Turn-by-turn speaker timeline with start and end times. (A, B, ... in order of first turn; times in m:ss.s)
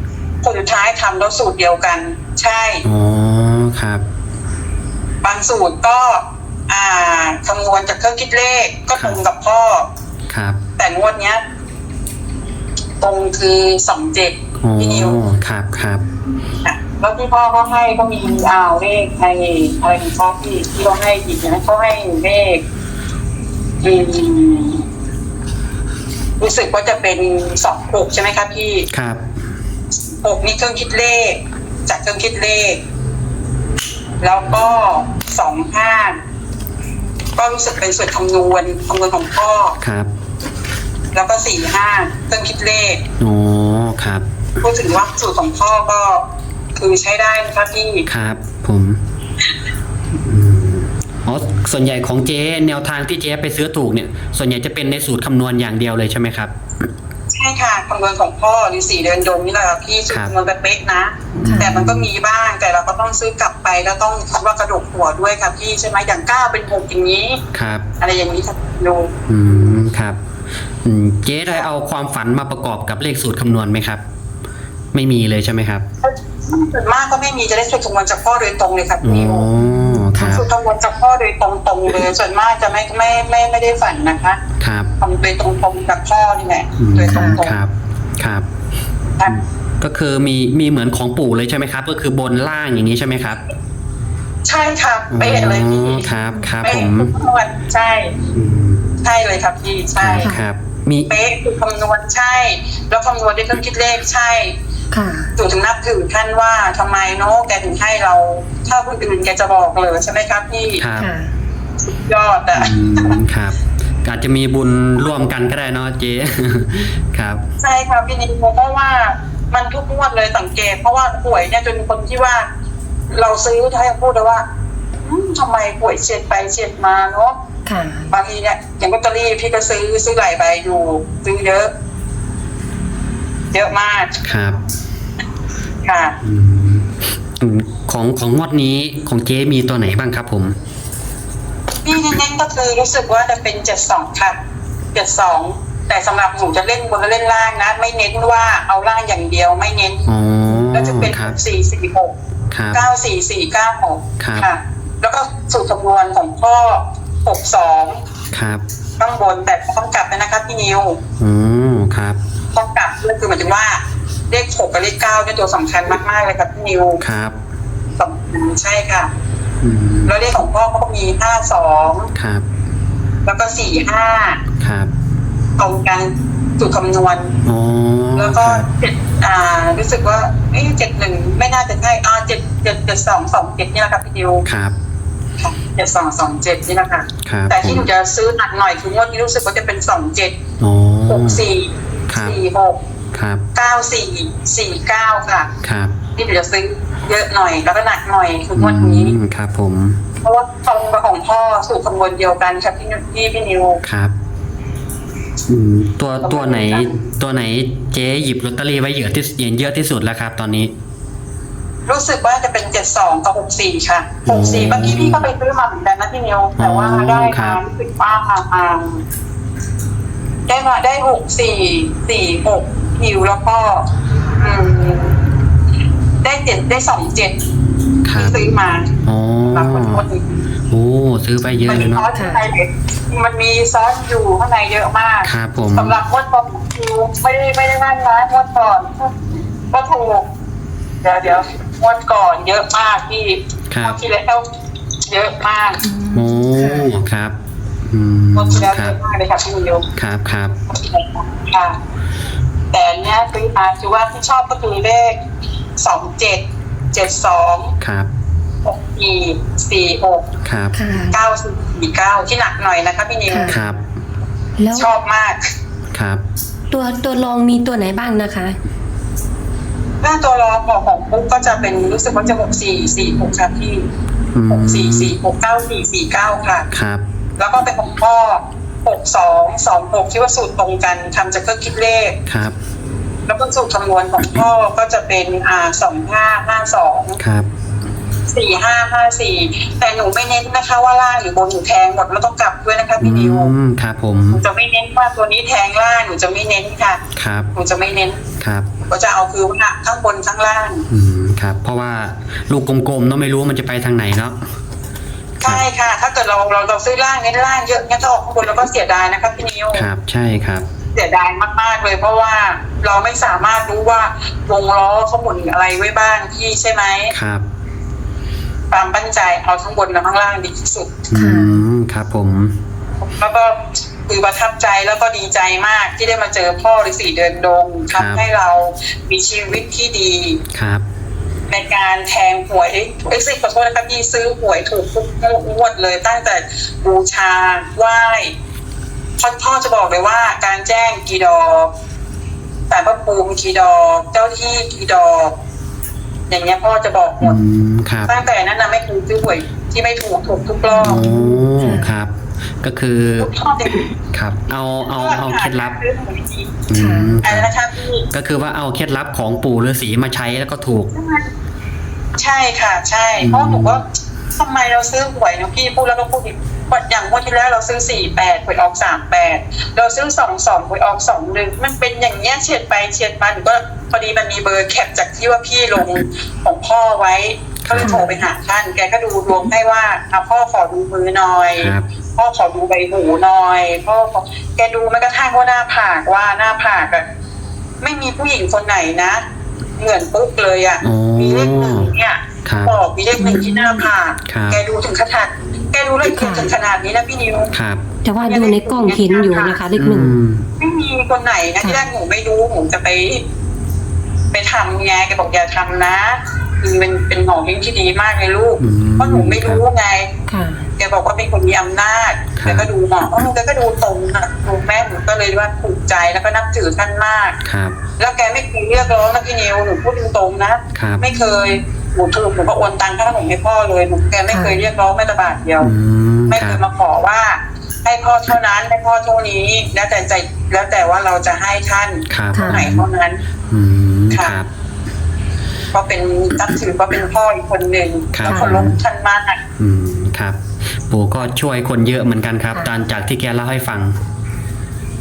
0:00.4-0:02.8 A
0:02.8-0:04.0 B
0:05.2-0:09.9 A
0:09.0-0:09.2 B
0:10.3-0:10.6 B
0:10.8-0:11.4 A
0:13.0-0:15.2 A
0:14.6-0:16.0 B
0:16.6-0:22.6 A
0:23.8-0:24.8 A
0:26.4-0:28.9 A
0:28.9-0:29.2 B
0:30.2-0:32.8 A
0:34.2-0:36.2 A
0:37.4-0:39.8 A
0:39.8-0:40.1 B
0:41.1-0:43.0 A
0:43.2-0:44.2 B
0:44.6-0:46.2 A
0:46.8-0:48.1 A
0:48.1-0:49.0 B
0:50.2-0:56.5 B
0:57.3-1:07.4 A
1:01.3-1:02.1 B
1:01.4-1:01.7 C
1:07.5-1:07.8 B
1:08.0-1:09.8 A
1:09.3-1:10.2 B
1:10.8-1:14.0 B
1:14.9-1:15.8 B
1:16.0-1:19.5 A
1:19.0-1:20.4 B
1:19.6-1:20.4 C
1:20.3-1:24.4 A
1:24.6-1:24.9 B
1:25.0-1:27.6 A
1:26.8-1:28.5 B
1:27.1-1:27.4 C
1:29.3-1:33.4 B
1:34.4-1:36.0 A
1:35.1-1:37.1 B
1:36.6-1:38.1 A
1:38.3-1:39.0 B
1:39.0-1:40.3 A
1:40.0-1:41.1 B
1:41.1-1:44.6 A
1:44.9-1:45.3 C
1:45.4-1:50.8 A
1:50.8-1:51.1 B
1:51.0-1:51.3 C
1:51.8-1:53.2 A
1:52.6-1:57.4 B
1:57.6-2:02.5 A
2:03.1-2:04.4 A
2:05.0-2:07.4 A
2:07.7-2:08.1 C
2:08.1-2:11.7 A
2:13.5-2:14.3 A
2:14.3-2:14.6 B
2:15.8-2:16.2 A
2:16.2-2:20.6 B
2:21.8-2:24.4 A
2:24.9-2:30.1 A
2:30.1-2:31.4 B
2:30.7-2:32.2 A
2:32.5-2:32.8 B
2:32.7-2:38.0 A
2:34.2-2:34.5 B
2:38.3-2:38.6 B
2:39.0-2:41.0 A
2:41.2-2:42.2 B
2:42.5-2:47.0 A
2:47.0-2:47.4 B
2:48.0-2:49.1 A
2:49.6-2:50.1 B
2:50.1-2:52.1 A
2:52.2-2:52.4 B
2:53.2-2:54.4 A
2:54.6-2:54.9 B
2:55.6-2:57.3 A
2:57.5-2:58.7 B
2:58.2-3:04.4 A
3:04.4-3:04.8 B
3:05.4-3:10.4 A
3:07.2-3:07.9 B
3:10.6-3:11.4 B
3:11.1-3:12.8 A
3:12.1-3:12.4 B
3:13.1-3:13.4 B
3:13.6-3:15.5 A
3:15.6-3:15.9 B
3:16.2-3:19.1 A
3:18.6-3:20.0 B
3:20.2-3:23.8 A
3:23.8-3:24.1 B
3:25.5-3:30.7 B
3:26.2-3:27.0 A
3:31.9-3:39.0 A
3:34.3-3:35.3 B
3:36.6-3:37.6 B
3:40.5-3:43.8 A
3:44.4-3:45.2 A
3:46.2-3:47.4 A
3:48.0-3:48.4 B
3:48.2-3:48.9 A
3:49.0-3:50.0 B
3:49.5-3:50.3 A
3:50.7-3:52.0 B
3:51.7-3:59.2 A
3:52.1-3:52.4 C
3:55.2-3:56.0 B
3:59.7-4:00.3 A
4:01.0-4:04.5 A
4:03.7-4:04.0 B
4:05.1-4:05.8 A
4:05.8-4:06.9 C
4:06.1-4:07.4 B
4:07.9-4:09.0 B
4:08.4-4:09.9 A
4:10.0-4:10.6 B
4:10.7-4:11.8 A
4:12.7-4:15.2 A
4:15.8-4:17.7 A
4:17.8-4:18.1 B
4:18.6-4:20.3 A
4:20.4-4:20.8 B
4:20.7-4:21.2 C
4:21.1-4:23.6 A
4:23.3-4:23.6 C
4:23.5-4:23.8 B
4:24.6-4:24.9 C
4:24.7-4:25.4 A
4:25.9-4:26.2 B
4:26.7-4:28.6 C
4:30.0-4:33.9 A
4:34.3-4:35.1 B
4:34.5-4:36.7 A
4:36.7-4:37.0 B
4:37.4-4:42.2 A
4:42.3-4:42.6 B
4:43.3-4:47.2 A
4:47.2-4:47.5 B
4:48.3-4:53.5 A
4:53.0-4:54.4 B
4:54.3-4:57.0 A
4:57.2-4:57.5 B
4:57.5-4:58.3 A
4:58.4-4:58.7 B
4:58.9-5:00.8 A
5:00.9-5:04.4 B
5:05.4-5:09.8 A
5:09.7-5:10.6 B
5:11.0-5:17.1 A
5:17.1-5:17.4 B
5:18.7-5:21.0 A
5:21.1-5:22.6 B
5:21.1-5:21.6 C
5:23.0-5:30.4 A
5:27.9-5:28.2 B
5:30.5-5:30.8 B
5:31.5-5:38.3 A
5:39.2-5:41.7 A
5:42.7-5:45.3 A
5:46.3-5:47.4 A
5:47.2-5:48.1 B
5:48.1-5:51.0 A
5:50.7-5:51.9 C
5:50.8-5:53.3 B
5:53.2-5:53.9 A
5:54.1-5:55.8 B
5:54.8-5:56.6 A
5:56.7-5:57.5 B
5:56.7-5:57.1 C
5:57.2-5:58.0 A
5:58.1-6:00.9 B
6:00.9-6:01.3 A
6:02.2-6:03.8 A
6:03.2-6:03.8 B
6:04.4-6:27.0 A
6:17.6-6:18.0 B
6:17.8-6:18.2 C
6:21.6-6:21.8 B
6:27.8-6:29.2 A
6:29.8-6:37.5 A
6:30.8-6:31.9 B
6:32.4-6:32.7 B
6:33.2-6:33.9 C
6:34.3-6:34.6 B
6:36.0-6:36.5 C
6:37.5-6:37.8 B
6:38.0-6:40.1 C
6:38.2-6:39.6 A
6:39.8-6:40.5 B
6:40.6-6:43.2 A
6:44.3-6:50.1 A
6:48.6-6:49.6 B
6:50.3-6:50.7 C
6:50.8-6:57.4 A
6:52.4-6:52.7 B
6:57.4-6:57.8 B
6:58.0-7:05.7 A
7:00.8-7:01.0 B
7:04.3-7:04.6 C
7:05.6-7:06.6 B
7:06.3-7:13.2 A
7:12.1-7:12.8 B
7:12.3-7:12.6 C
7:13.5-7:14.5 B
7:14.1-7:14.4 A
7:15.7-7:19.4 A
7:18.1-7:18.8 B
7:18.3-7:18.6 C
7:19.6-7:24.0 B